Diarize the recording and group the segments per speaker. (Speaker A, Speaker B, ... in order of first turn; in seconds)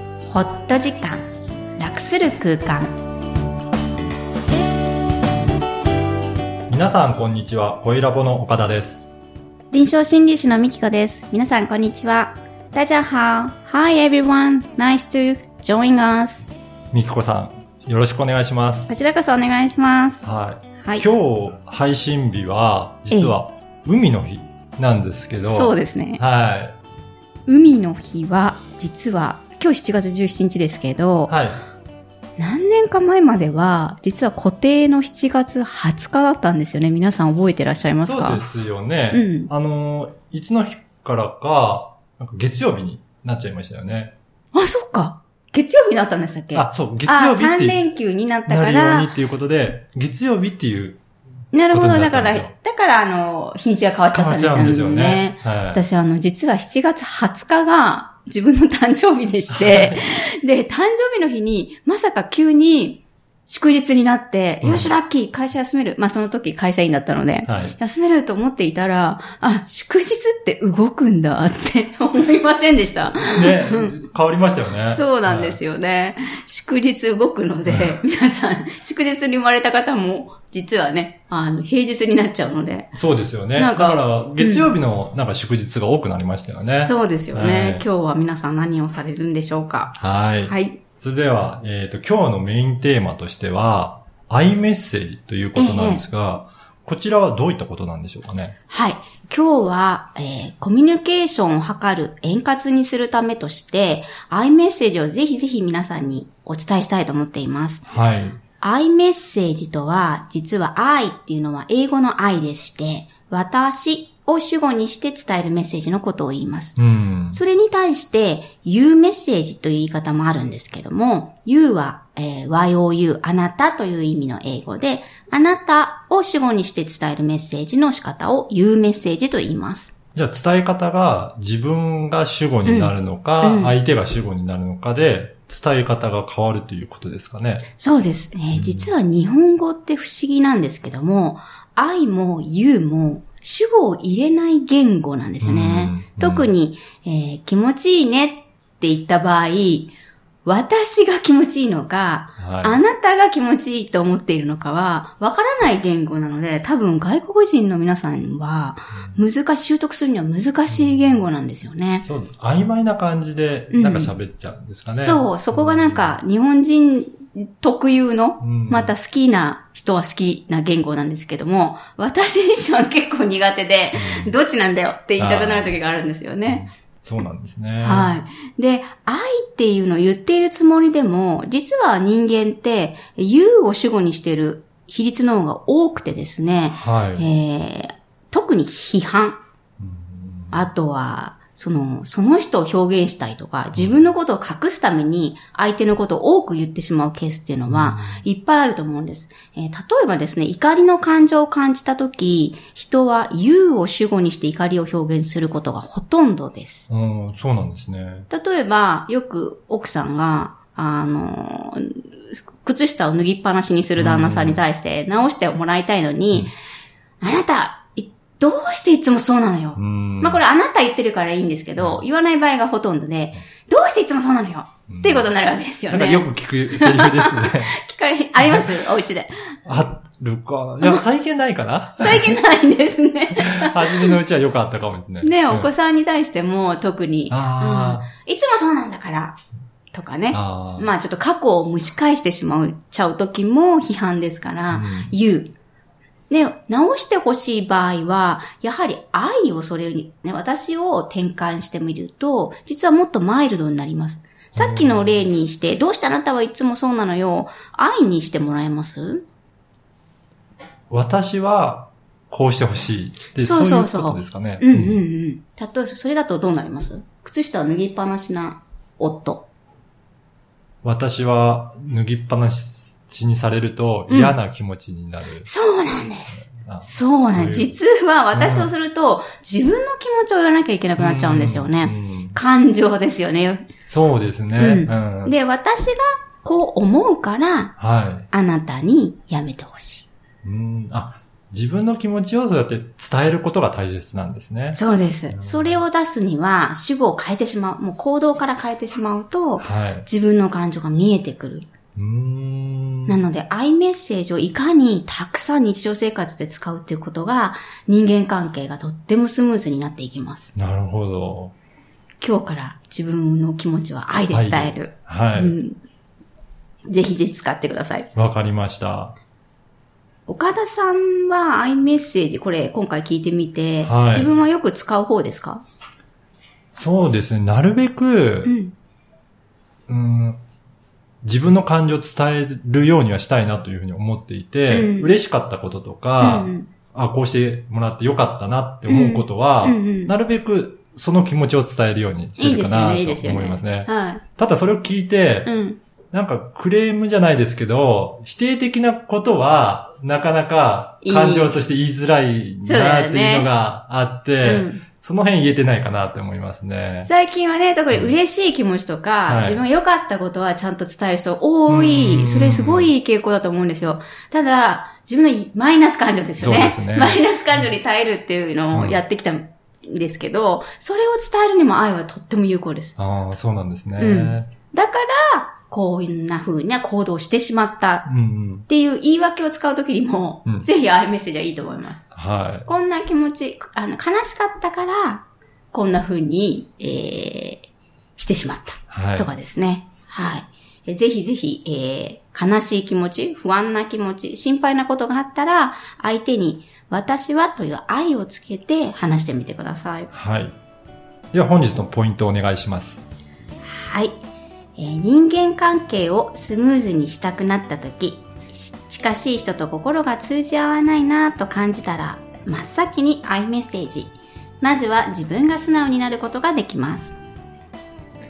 Speaker A: 0.3-1.3, 1.8-3.0, 9.7-16.5, 18.9-20.2, 23.1-23.4, 25.3-26.2, 27.5-31.3, 32.4-38.5, 39.1-39.5, 44.5-49.1, 51.5-73.9, 74.9-82.9, 83.5-84.7, 86.8-90.8, 95.6-96.0, 98.7-107.9, 108.6-116.8, 117.3-129.9, 132.7-133.7, 137.8-162.1, 163.7-164.1, 165.0-176.7, 177.8-189.4, 190.5-206.9, 208.3-216.5, 217.2-229.3, 232.0-234.2, 235.2-239.4, 239.9-245.5, 246.3-259.2, 263.4-269.5, 274.1-274.4, 275.4-283.7, 284.6-287.7, 288.3-290.1, 294.7-301.7, 303.1-310.5, 312.2-315.8, 316.9-318.1, 320.3-325.6, 328.4-328.7, 334.7-335.1, 336.2-336.7, 338.9-340.1, 342.4-344.2, 345.5-345.8, 351.0-351.6, 352.6-353.5, 354.4-354.8, 357.1-373.0, 374.0-378.1, 378.7-382.1, 382.6-400.1, 403.6-404.2, 404.8-417.2
Speaker B: 6.7-9.1, 16.9-18.9, 20.2-26.8, 31.3-31.6, 38.0-44.1, 46.5-47.8, 48.5-51.0, 51.7-52.5, 54.1-55.8, 59.5-60.0, 64.6-64.9, 67.5-67.8, 73.2-75.6, 77.7-78.0, 82.9-87.9, 90.0-98.5, 107.9-108.4, 116.8-117.4, 130.2-137.7, 138.5-138.9, 145.4-146.5, 152.4-152.8, 160.7-161.1, 162.0-166.2, 168.4-168.9, 173.9-174.4, 175.2-175.8, 176.5-178.1, 186.7-187.3, 189.8-190.7, 193.7-194.0, 197.7-198.2, 206.9-208.3, 214.0-214.6, 219.8-220.4, 221.8-222.0, 224.9-225.3, 225.9-227.8, 228.4-228.7, 229.7-232.4, 233.3-235.7, 237.3-238.1, 240.3-240.9, 244.7-245.1, 254.5-255.1, 260.9-265.0, 270.8-275.5, 276.4-277.7, 278.3-278.7, 281.0-282.4, 283.9-285.4, 287.8-288.3, 290.4-295.8, 299.6-300.1, 302.0-303.2, 310.6-311.5, 314.3-315.6, 318.1-319.2, 323.9-324.3, 326.7-328.5, 329.9-330.4, 331.2-345.5, 346.1-357.1, 359.3-359.6, 361.7-362.9, 366.4-367.7, 368.7-369.0, 373.0-374.5, 378.1-378.7, 382.1-382.7, 388.9-389.3, 400.1-400.6, 401.3-403.0